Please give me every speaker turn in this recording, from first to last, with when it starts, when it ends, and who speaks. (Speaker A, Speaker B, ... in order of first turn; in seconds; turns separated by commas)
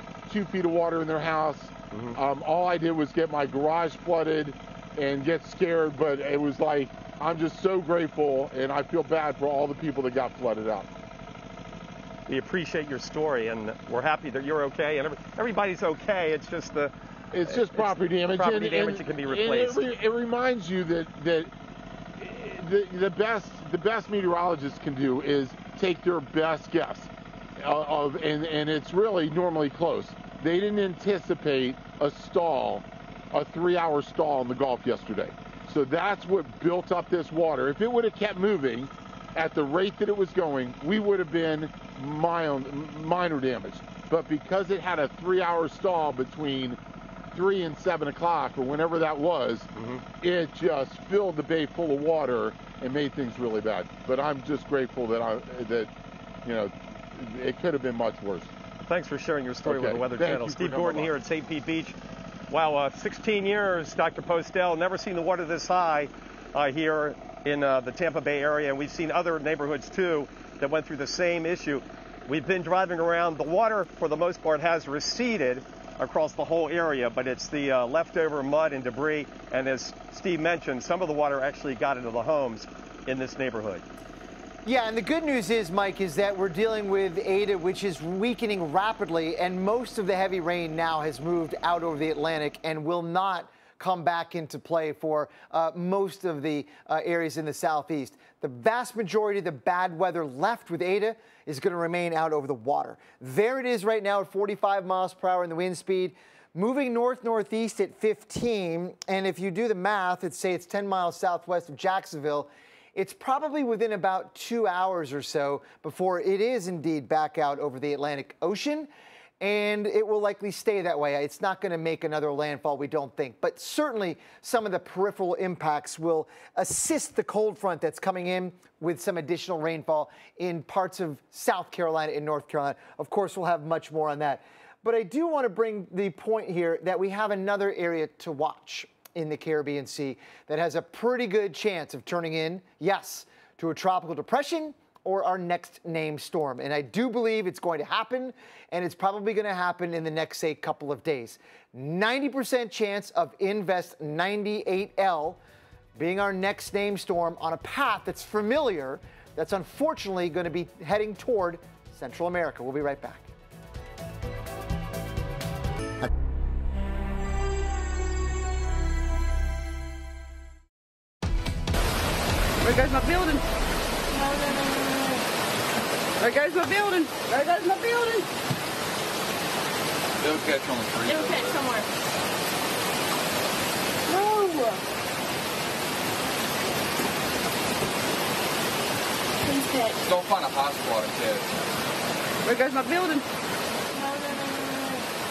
Speaker A: 0.3-10.9, Speaker B: 1.9-2.2, Speaker B: 12.3-19.9, Speaker A: 17.3-21.5, Speaker A: 22.2-46.8, Speaker A: 47.3-49.7, Speaker B: 49.8-50.0, Speaker A: 50.2-55.9, Speaker A: 56.5-58.5, Speaker B: 58.8-62.0, Speaker A: 59.6-61.1, Speaker B: 62.5-83.8, Speaker C: 84.7-118.9, Speaker C: 119.4-155.4, Speaker C: 156.0-163.3, Speaker D: 172.6-173.4, Speaker D: 174.1-175.2, Speaker D: 176.2-178.3, Speaker E: 180.2-181.6, Speaker D: 181.1-181.9, Speaker D: 184.1-184.8, Speaker D: 189.4-190.0, Speaker E: 190.0-191.6, Speaker D: 192.4-193.2, Speaker D: 193.9-195.0